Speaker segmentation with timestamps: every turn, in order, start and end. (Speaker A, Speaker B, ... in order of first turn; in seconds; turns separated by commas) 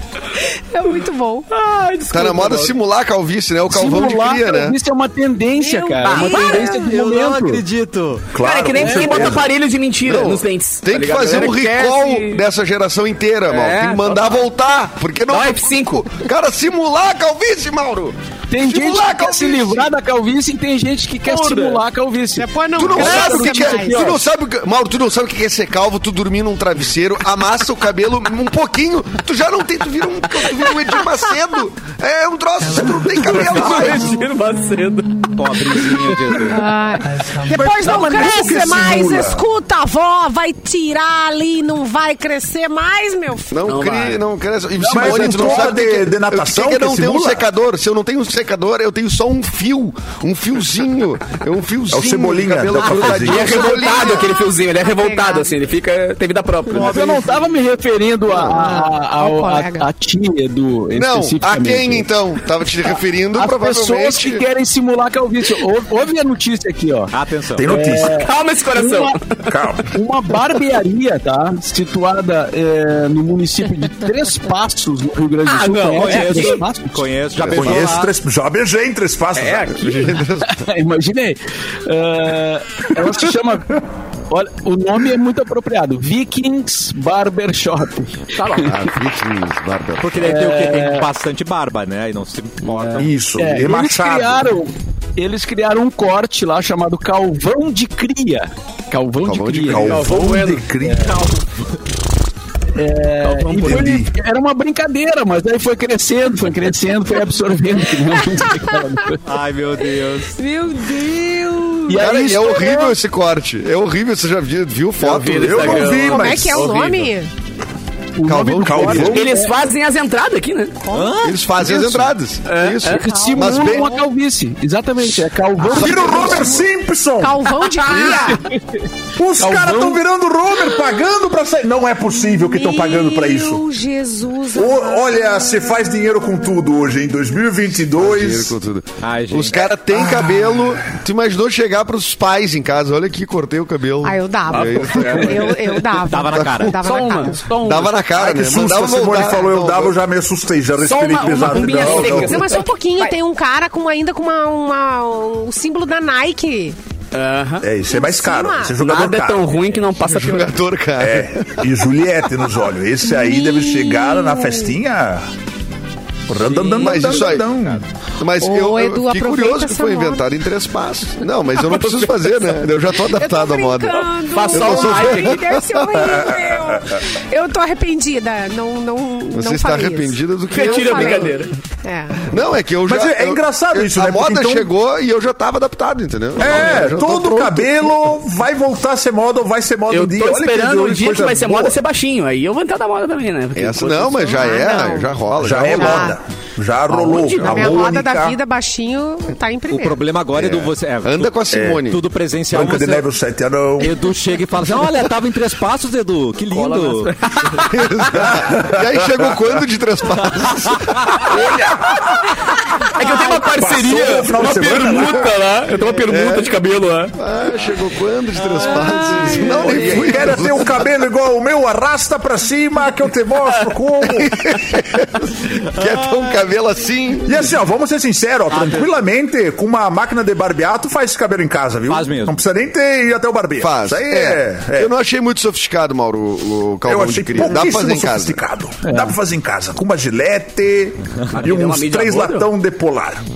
Speaker A: 0.7-1.5, Speaker B: 1.5-2.7, Speaker C: 2.1-4.8, Speaker D: 3.7-7.6, Speaker A: 5.6-7.0, Speaker B: 6.1-6.5, Speaker E: 6.6-8.3, Speaker F: 8.3-9.5, Speaker B: 8.4-12.4, Speaker D: 8.8-9.4, Speaker C: 10.0-19.9, Speaker B: 13.5-14.4, Speaker B: 15.3-16.1, Speaker D: 18.5-24.2, Speaker B: 21.3-21.8, Speaker A: 22.4-24.0, Speaker C: 22.8-34.2, Speaker B: 33.1-36.5, Speaker E: 35.3-36.8, Speaker A: 36.4-43.6, Speaker F: 37.5-39.4, Speaker C: 43.5-54.3, Speaker B: 43.7-44.2, Speaker D: 44.8-45.7, Speaker F: 44.8-47.4, Speaker F: 51.9-53.6, Speaker B: 52.8-57.2, Speaker A: 54.8-55.5, Speaker D: 56.7-62.1, Speaker C: 58.3-58.6, Speaker A: 58.5-59.9, Speaker C: 60.9-64.5, Speaker D: 63.4-67.2, Speaker E: 67.1-67.7, Speaker F: 67.6-68.3, Speaker D: 67.7-69.2, Speaker B: 68.1-69.4, Speaker F: 69.4-69.9, Speaker D: 69.9-77.1, Speaker E: 75.5-78.1, Speaker C: 77.4-78.0, Speaker F: 77.4-79.7, Speaker B: 79.4-80.2, Speaker C: 79.7-80.7, Speaker D: 80.0-88.7, Speaker B: 88.4-88.8, Speaker C: 88.6-90.4, Speaker E: 90.0-93.1, Speaker D: 90.2-91.1, Speaker D: 92.8-100.0, Speaker F: 93.0-94.5, Speaker C: 99.2-100.0, Speaker F: 99.6-101.3, Speaker B: 99.7-100.7, Speaker D: 100.8-101.2, Speaker D: 102.8-109.2, Speaker B: 103.2-104.1, Speaker F: 103.6-104.1, Speaker A: 108.1-108.9, Speaker E: 109.2-110.3, Speaker A: 109.8-112.0, Speaker D: 111.9-113.0, Speaker C: 112.0-116.0, Speaker B: 115.0-117.1, Speaker F: 115.4-117.0, Speaker A: 115.8-117.3, Speaker D: 118.2-119.5, Speaker C: 118.2-119.2, Speaker F: 118.6-119.4, Speaker B: 119.0-120.8, Speaker A: 120.8-121.2, Speaker E: 120.9-121.4, Speaker C: 121.2-124.0, Speaker B: 122.5-123.2, Speaker A: 122.9-124.0, Speaker D: 123.0-126.7, Speaker C: 125.6-126.6, Speaker F: 125.7-127.5, Speaker A: 127.2-128.5, Speaker D: 127.9-128.8, Speaker F: 129.2-133.6, Speaker D: 129.4-130.0, Speaker A: 130.7-131.0, Speaker A: 132.1-135.7, Speaker F: 134.5-138.5, Speaker C: 138.0-145.5, Speaker E: 139.0-139.7, Speaker A: 144.0-147.5, Speaker B: 144.5-145.8, Speaker E: 146.1-146.8, Speaker C: 146.3-146.7, Speaker B: 146.8-148.0, Speaker C: 147.5-150.0, Speaker F: 148.2-152.4, Speaker B: 150.8-153.2, Speaker A: 151.2-156.8, Speaker B: 157.1-157.7, Speaker F: 157.6-159.7, Speaker A: 157.9-158.8, Speaker B: 158.8-160.6, Speaker C: 160.1-161.9, Speaker F: 161.0-165.3, Speaker A: 163.0-164.8, Speaker F: 166.3-167.8, Speaker B: 166.5-167.1, Speaker C: 166.8-167.5, Speaker C: 168.2-176.1, Speaker A: 168.4-170.3, Speaker B: 171.7-172.3, Speaker A: 173.0-182.3, Speaker B: 173.9-175.6, Speaker F: 176.1-176.8, Speaker C: 179.3-181.4, Speaker B: 180.5-181.5, Speaker C: 182.3-188.0, Speaker F: 182.9-184.7, Speaker F: 186.4-191.8, Speaker B: 189.9-194.5, Speaker C: 193.6-196.2, Speaker A: 194.2-196.2, Speaker F: 195.4-198.4, Speaker C: 197.0-197.8, Speaker B: 197.1-197.5, Speaker A: 197.3-200.0, Speaker E: 199.7-203.1, Speaker C: 200.3-202.0, Speaker F: 201.5-201.9, Speaker F: 202.5-204.1, Speaker E: 203.8-207.2, Speaker B: 206.5-207.7, Speaker C: 207.7-211.4, Speaker F: 208.4-208.9, Speaker B: 211.2-212.3, Speaker B: 212.9-217.1, Speaker F: 213.5-215.4, Speaker C: 215.9-216.6, Speaker C: 217.1-220.8, Speaker E: 218.4-219.6, Speaker A: 218.6-220.1, Speaker B: 219.3-219.7, Speaker F: 219.7-224.5, Speaker C: 224.1-227.6, Speaker E: 225.8-226.2, Speaker F: 227.2-234.9, Speaker E: 228.5-228.9, Speaker E: 231.9-232.4, Speaker C: 233.6-238.4, Speaker F: 236.8-243.3, Speaker D: 238.8-239.2, Speaker B: 241.3-242.5